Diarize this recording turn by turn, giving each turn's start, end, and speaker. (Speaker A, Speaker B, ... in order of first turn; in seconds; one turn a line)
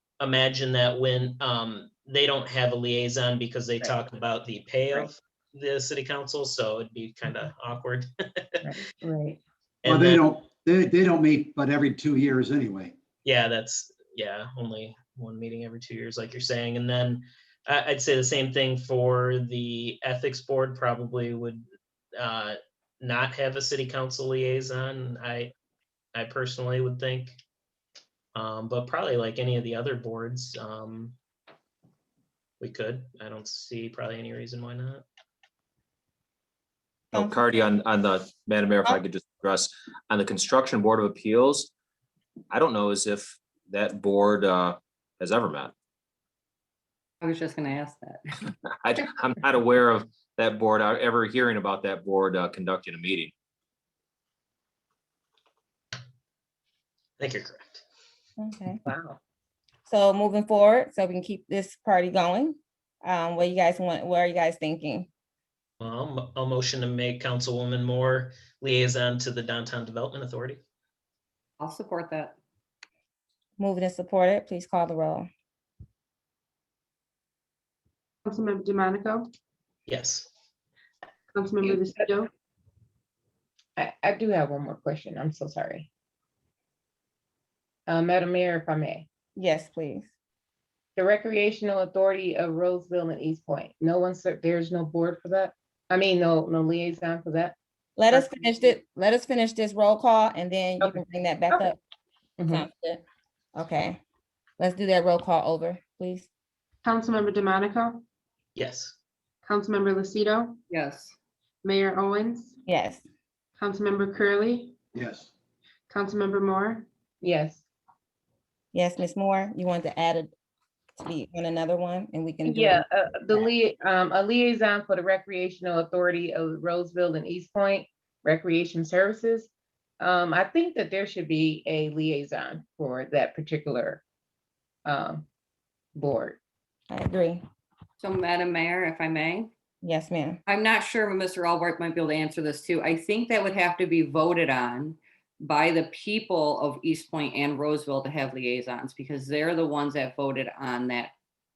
Speaker A: 0.2-8.6
Speaker B: 8.6-9.4
Speaker A: 9.8-10.2
Speaker C: 9.8-12.9
Speaker A: 13.2-21.6
Speaker A: 22.1-25.5
Speaker A: 26.1-27.3
Speaker A: 28.3-31.1
Speaker A: 32.6-35.0
Speaker D: 37.1-37.4
Speaker E: 37.1-41.7
Speaker E: 42.5-45.7
Speaker F: 47.2-48.2
Speaker E: 48.8-53.3
Speaker A: 57.2-57.8
Speaker D: 58.4-58.8
Speaker B: 58.9-59.2
Speaker D: 59.9-65.1
Speaker A: 65.8-70.6
Speaker F: 71.6-72.4
Speaker D: 73.6-75.3
Speaker G: 78.2-79.3
Speaker A: 79.9-80.3
Speaker G: 81.3-82.3
Speaker B: 83.8-85.9
Speaker B: 87.9-89.1
Speaker D: 89.3-90.1
Speaker B: 91.0-97.5
Speaker D: 98.0-101.8
Speaker B: 98.1-98.5
Speaker B: 102.4-102.6
Speaker D: 102.5-103.0
Speaker D: 103.5-104.0
Speaker D: 104.6-106.3
Speaker G: 106.8-108.0
Speaker A: 108.5-109.0
Speaker G: 109.4-110.6
Speaker F: 110.7-111.2
Speaker G: 111.6-112.5
Speaker D: 112.7-113.0
Speaker G: 113.6-114.8
Speaker C: 114.9-115.3
Speaker G: 115.9-116.9
Speaker B: 117.2-117.6
Speaker D: 118.7-120.3
Speaker D: 121.0-123.4
Speaker B: 122.4-129.5
Speaker B: 130.0-134.0
Speaker B: 134.8-135.2
Speaker B: 135.9-136.4
Speaker D: 136.9-137.4
Speaker F: 138.0-139.5
Speaker D: 139.8-140.4
Speaker F: 140.5-151.1